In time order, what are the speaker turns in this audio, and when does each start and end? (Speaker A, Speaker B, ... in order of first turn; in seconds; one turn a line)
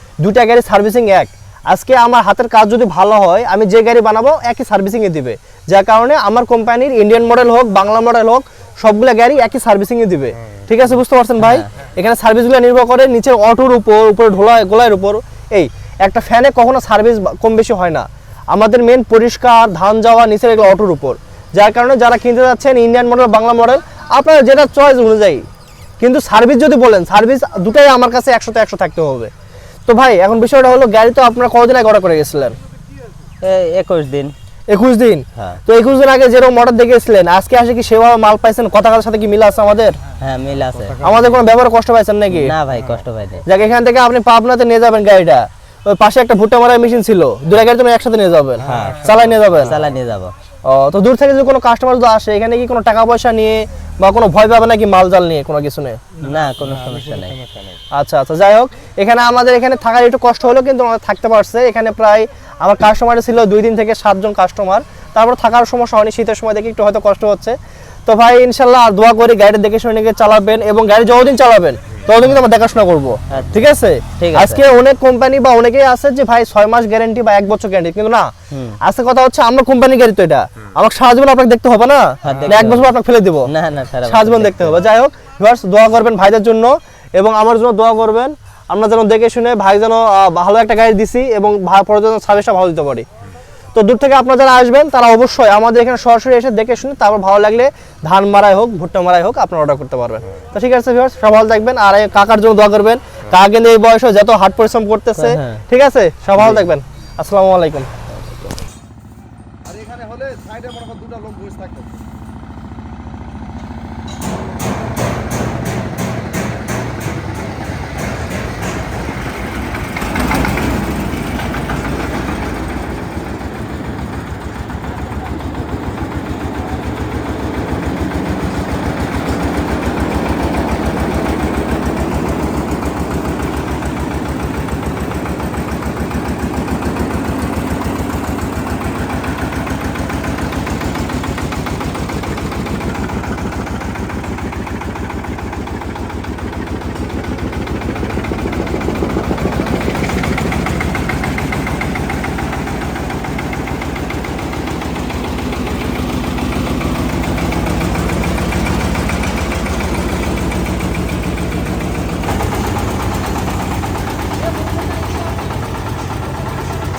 Speaker A: 0.2-25.4
Speaker B: 11.4-11.7
Speaker A: 26.0-29.3
Speaker A: 29.9-32.6
Speaker B: 33.4-34.3
Speaker A: 34.7-40.0
Speaker B: 40.2-41.2
Speaker A: 41.0-42.5
Speaker B: 42.3-43.4
Speaker A: 43.5-49.8
Speaker B: 48.7-50.3
Speaker A: 50.7-56.0
Speaker B: 56.2-57.5
Speaker A: 57.9-78.3
Speaker B: 73.3-73.6
Speaker B: 74.2-74.6
Speaker B: 78.5-78.8
Speaker A: 78.8-83.5
Speaker B: 82.2-82.9
Speaker B: 83.5-84.8
Speaker A: 84.0-93.0
Speaker A: 93.8-107.9
Speaker B: 105.2-105.6
Speaker C: 109.8-111.8